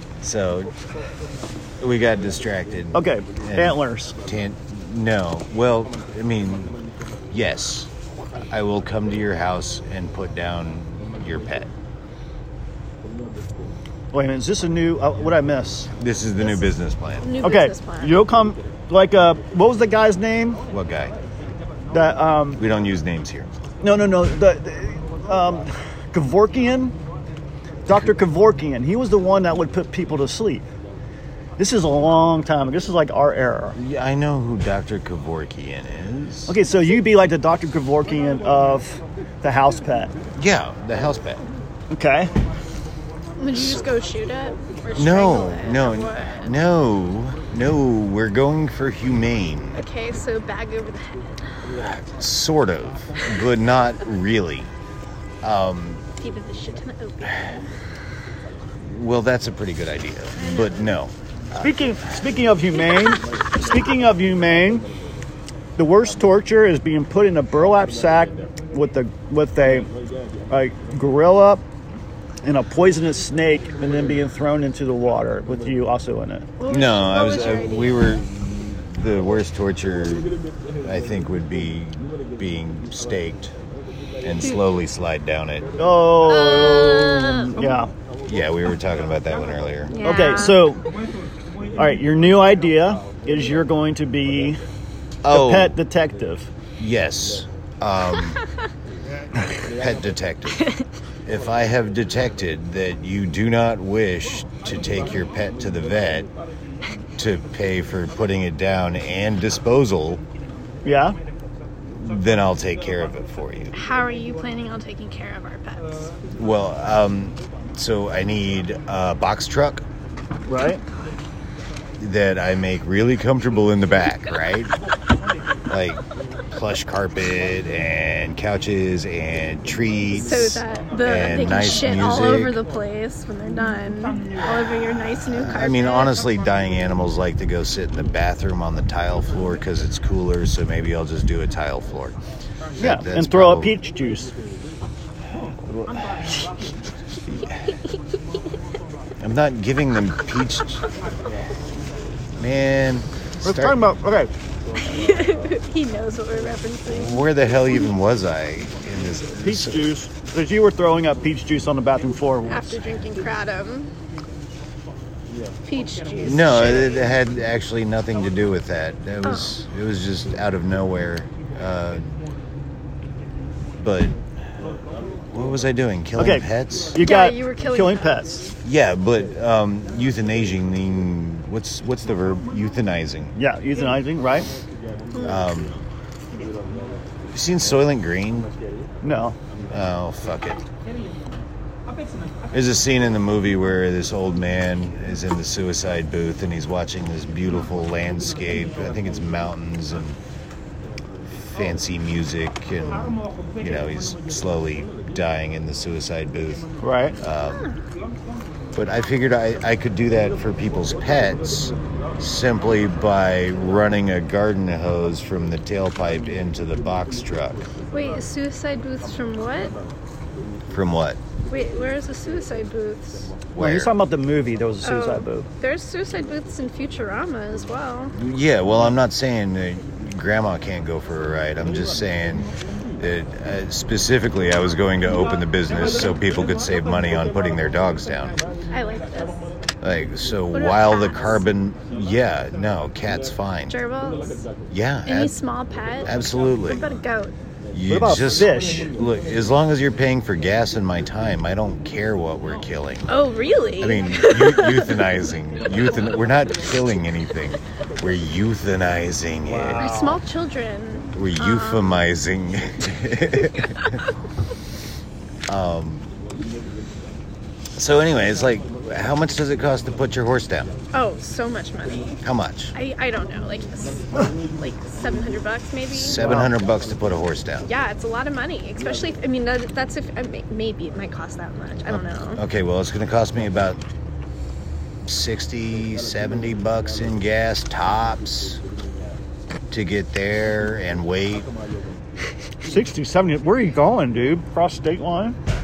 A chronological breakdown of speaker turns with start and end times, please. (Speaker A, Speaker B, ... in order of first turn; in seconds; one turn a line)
Speaker A: 0.2-0.7
Speaker A: 1.8-6.8
Speaker B: 2.9-4.2
Speaker A: 7.3-7.9
Speaker A: 8.5-11.7
Speaker B: 14.1-15.9
Speaker A: 15.9-17.3
Speaker C: 16.4-16.7
Speaker C: 17.2-18.2
Speaker B: 17.4-20.6
Speaker A: 20.7-21.1
Speaker B: 21.9-22.6
Speaker A: 22.6-23.5
Speaker B: 23.8-26.9
Speaker B: 27.9-30.6
Speaker B: 31.6-33.8
Speaker A: 33.8-36.5
Speaker B: 36.5-40.1
Speaker A: 40.4-41.4
Speaker B: 41.9-42.3
Speaker C: 43.4-46.5
Speaker A: 43.5-43.8
Speaker A: 45.0-49.8
Speaker C: 49.8-51.3
Speaker A: 51.8-54.7
Speaker A: 55.4-56.0
Speaker C: 56.2-57.6
Speaker A: 58.8-61.1
Speaker C: 60.4-60.8
Speaker B: 61.6-64.8
Speaker B: 65.8-69.9
Speaker B: 70.5-71.6
Speaker B: 72.4-76.5
Speaker C: 76.6-78.2
Speaker A: 76.7-80.3
Speaker A: 80.8-83.5
Speaker A: 84.2-85.7
Speaker B: 85.8-87.9
Speaker C: 86.2-87.7
Speaker A: 88.2-89.9
Speaker C: 89.9-90.9
Speaker B: 90.0-90.8
Speaker B: 91.8-94.6
Speaker A: 95.2-95.8
Speaker B: 95.2-96.5
Speaker A: 96.8-98.4
Speaker A: 99.5-100.7
Speaker A: 101.2-106.3
Speaker A: 107.2-110.2
Speaker B: 110.8-111.2
Speaker A: 111.9-113.7
Speaker C: 113.7-116.1
Speaker A: 116.3-119.8
Speaker B: 120.5-120.8
Speaker A: 122.0-124.7
Speaker A: 125.7-132.6
Speaker C: 130.1-136.2
Speaker A: 135.3-142.2
Speaker A: 142.8-143.8
Speaker B: 142.8-144.3
Speaker B: 145.7-146.2
Speaker A: 149.2-150.8
Speaker A: 152.4-153.8
Speaker B: 153.4-154.3
Speaker C: 154.9-157.2
Speaker A: 156.9-159.9
Speaker B: 159.4-162.8
Speaker C: 162.5-163.9
Speaker C: 165.6-167.0
Speaker A: 166.2-172.0
Speaker C: 169.2-169.5
Speaker A: 173.8-174.7
Speaker A: 175.3-177.0
Speaker B: 176.2-178.5
Speaker C: 176.9-178.2
Speaker A: 178.6-183.3
Speaker B: 183.3-184.5
Speaker C: 185.1-185.4
Speaker A: 185.2-185.8
Speaker A: 187.3-188.5
Speaker B: 189.0-189.3
Speaker A: 189.7-190.6
Speaker A: 192.5-200.2
Speaker A: 201.4-206.7
Speaker B: 206.8-207.2
Speaker A: 207.2-207.7
Speaker A: 208.7-217.7
Speaker C: 217.9-219.7
Speaker A: 220.7-221.2
Speaker C: 221.5-223.3
Speaker A: 223.5-223.9
Speaker B: 223.6-225.5
Speaker C: 224.8-228.1
Speaker A: 228.1-238.4
Speaker C: 238.7-239.5
Speaker A: 239.8-243.8
Speaker C: 240.5-241.4
Speaker C: 243.7-244.4
Speaker A: 244.7-245.3
Speaker C: 245.0-247.3
Speaker A: 246.0-246.8
Speaker A: 247.7-253.2
Speaker B: 247.9-248.9
Speaker C: 253.1-255.0
Speaker A: 253.8-259.9
Speaker B: 259.5-260.2
Speaker C: 259.8-261.9
Speaker A: 261.1-264.0
Speaker A: 265.5-266.1
Speaker A: 267.8-270.7
Speaker C: 270.9-272.2
Speaker A: 272.2-272.7
Speaker C: 272.7-276.2
Speaker A: 275.9-277.7
Speaker C: 277.6-282.4
Speaker A: 281.9-283.8
Speaker A: 285.0-288.6
Speaker A: 289.7-291.5
Speaker B: 292.6-295.4